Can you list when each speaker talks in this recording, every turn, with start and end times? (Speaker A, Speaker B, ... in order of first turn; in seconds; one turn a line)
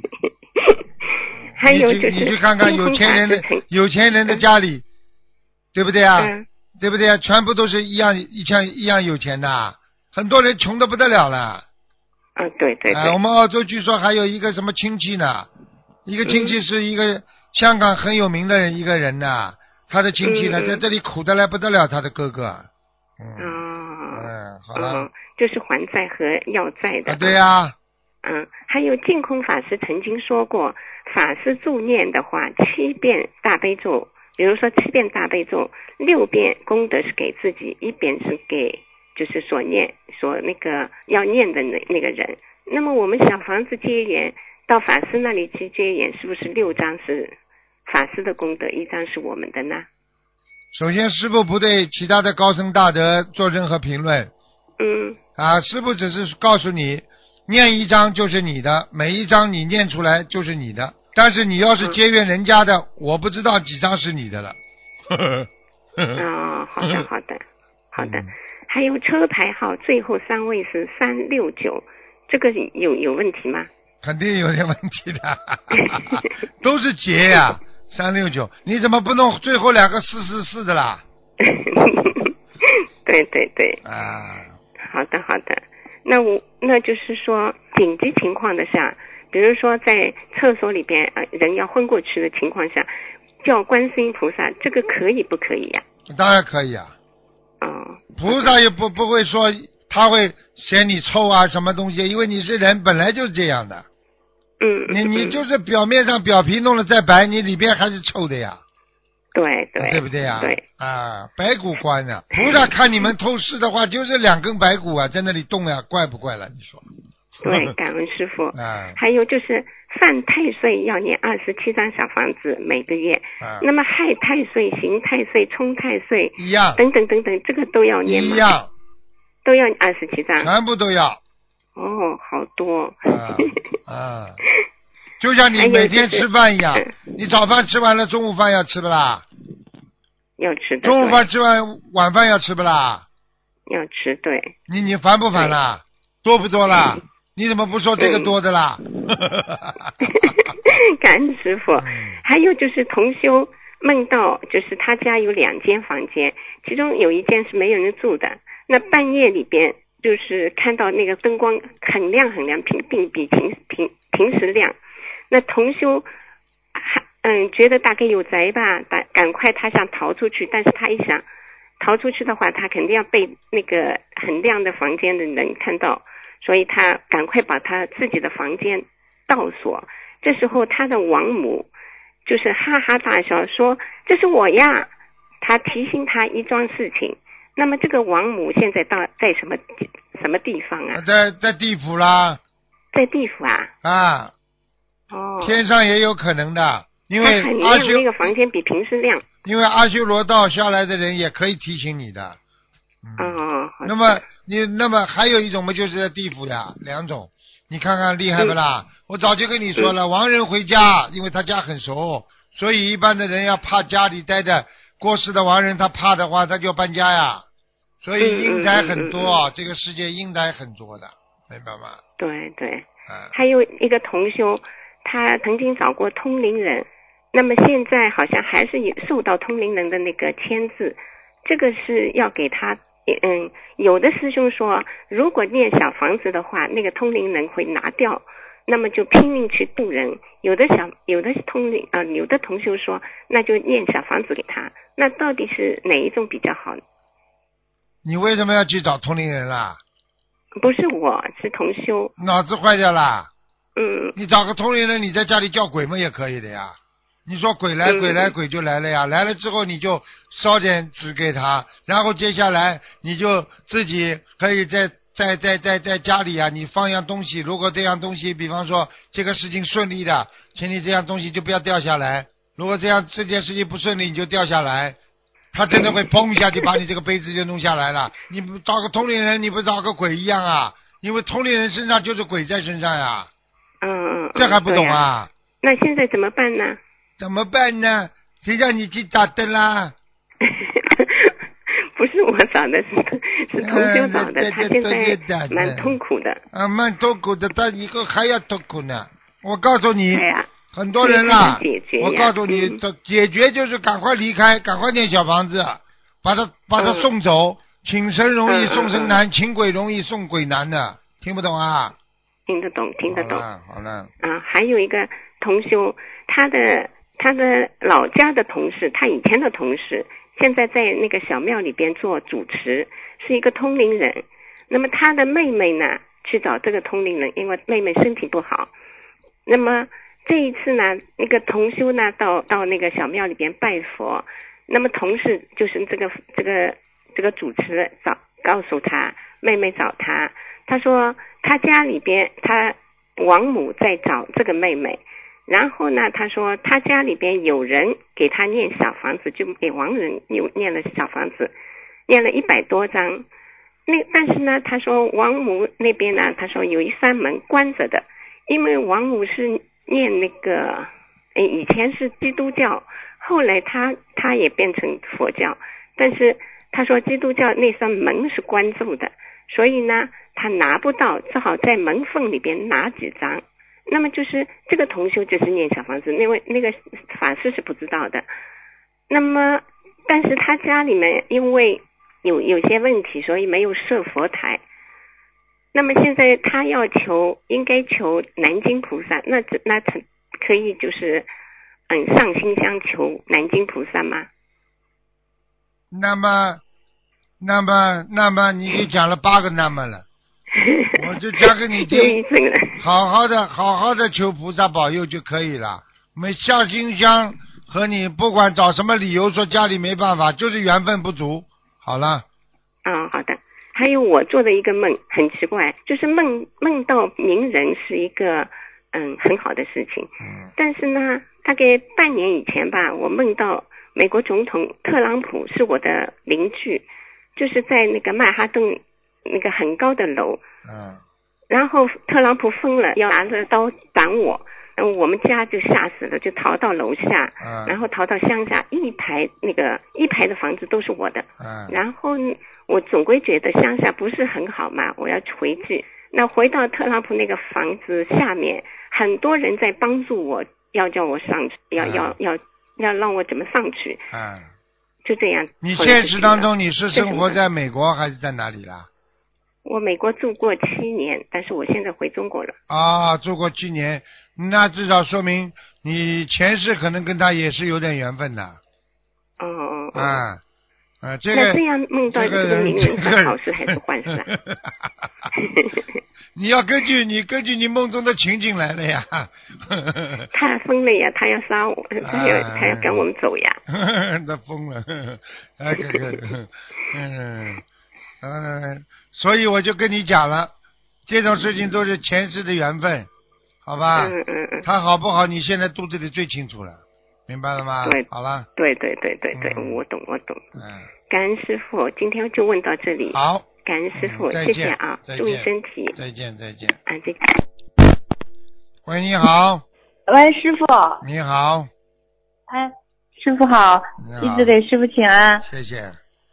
Speaker A: 0.2-3.6
Speaker B: 1.6-4.8
Speaker B: 5.7-11.6
Speaker A: 6.2-6.5
Speaker A: 12.4-13.2
Speaker B: 12.9-15.5
Speaker B: 16.1-22.7
Speaker A: 16.3-16.6
Speaker A: 20.2-20.8
Speaker B: 23.2-23.6
Speaker A: 23.4-27.4
Speaker B: 24.1-25.1
Speaker B: 27.1-27.8
Speaker A: 28.2-47.4
Speaker A: 47.9-49.9
Speaker B: 50.7-54.3
Speaker A: 54.8-55.2
Speaker B: 55.4-64.6
Speaker B: 65.1-65.5
Speaker A: 66.2-73.7
Speaker B: 68.0-68.3
Speaker B: 74.0-81.0
Speaker A: 75.8-76.2
Speaker A: 81.4-83.8
Speaker B: 83.8-84.5
Speaker A: 84.8-95.8
Speaker B: 96.1-96.9
Speaker A: 97.6-98.5
Speaker B: 98.2-103.9
Speaker A: 104.6-105.4
Speaker B: 104.9-108.6
Speaker A: 109.3-110.6
Speaker B: 109.8-116.9
Speaker A: 112.4-112.6
Speaker A: 117.4-128.5
Speaker B: 118.5-119.0
Speaker B: 123.4-123.7
Speaker B: 126.4-126.8
Speaker B: 128.1-128.7
Speaker A: 129.4-130.5
Speaker B: 130.4-131.2
Speaker A: 131.8-133.6
Speaker B: 133.1-134.4
Speaker B: 135.2-139.2
Speaker A: 135.6-136.9
Speaker A: 140.4-141.2
Speaker B: 140.8-143.1
Speaker A: 143.7-144.5
Speaker B: 144.7-150.1
Speaker A: 146.7-147.0
Speaker A: 148.0-148.3
Speaker A: 150.0-164.8
Speaker B: 151.8-152.2
Speaker A: 165.3-166.1
Speaker A: 166.8-171.2
Speaker A: 171.8-181.7
Speaker A: 182.2-184.9
Speaker A: 185.4-191.0
Speaker B: 190.9-192.4
Speaker A: 192.9-193.7
Speaker B: 193.8-194.3
Speaker A: 195.1-195.6
Speaker B: 195.4-198.3
Speaker A: 197.2-199.3
Speaker B: 199.4-202.4
Speaker B: 203.0-217.5
Speaker A: 203.2-204.2
Speaker B: 218.0-222.0
Speaker A: 218.2-219.4
Speaker A: 222.2-246.8
Speaker B: 248.0-249.8
Speaker A: 250.6-252.1
Speaker B: 252.2-253.3
Speaker A: 253.8-254.1
Speaker B: 254.2-275.0
Speaker A: 257.9-258.3
Speaker B: 275.5-283.3
Speaker A: 283.8-285.0
Speaker B: 284.4-285.3
Speaker A: 285.6-286.8
Speaker B: 287.2-290.0
Speaker A: 290.4-296.4
Speaker B: 293.6-296.0
Speaker B: 296.5-312.0
Speaker A: 300.1-300.5
Speaker A: 301.0-302.8
Speaker A: 306.8-307.1
Speaker A: 308.5-309.2
Speaker A: 312.5-313.4
Speaker B: 313.1-314.1
Speaker A: 314.2-328.7
Speaker A: 329.5-351.5
Speaker A: 352.1-353.3
Speaker A: 353.9-378.3
Speaker A: 379.1-384.6
Speaker A: 385.7-391.3
Speaker A: 391.9-394.3
Speaker B: 395.9-396.6
Speaker B: 397.4-400.1
Speaker A: 400.6-402.8
Speaker B: 400.9-402.2
Speaker B: 402.8-412.2
Speaker A: 412.9-430.4
Speaker B: 420.2-420.5
Speaker B: 430.6-431.0
Speaker A: 431.5-454.0
Speaker B: 437.4-437.8
Speaker B: 441.4-441.8
Speaker B: 451.8-452.1
Speaker B: 454.1-454.5
Speaker A: 455.1-457.4
Speaker B: 455.6-458.9
Speaker A: 459.6-462.6
Speaker B: 462.7-468.6
Speaker A: 469.4-470.2
Speaker B: 469.9-470.4
Speaker B: 471.0-474.7
Speaker A: 471.3-474.3
Speaker A: 475.4-475.8
Speaker B: 476.4-480.3
Speaker A: 480.3-483.6
Speaker B: 482.0-483.1
Speaker B: 483.7-487.6
Speaker B: 488.2-490.5
Speaker B: 491.1-493.1
Speaker B: 493.6-498.5
Speaker A: 494.0-494.7
Speaker A: 498.6-500.4
Speaker B: 499.3-499.8
Speaker B: 500.6-500.9
Speaker A: 501.1-506.0
Speaker B: 503.1-506.8
Speaker A: 506.9-507.4
Speaker B: 508.9-509.6
Speaker C: 510.1-511.0
Speaker B: 511.0-511.7
Speaker C: 512.5-515.5
Speaker B: 514.0-514.6
Speaker B: 515.4-516.0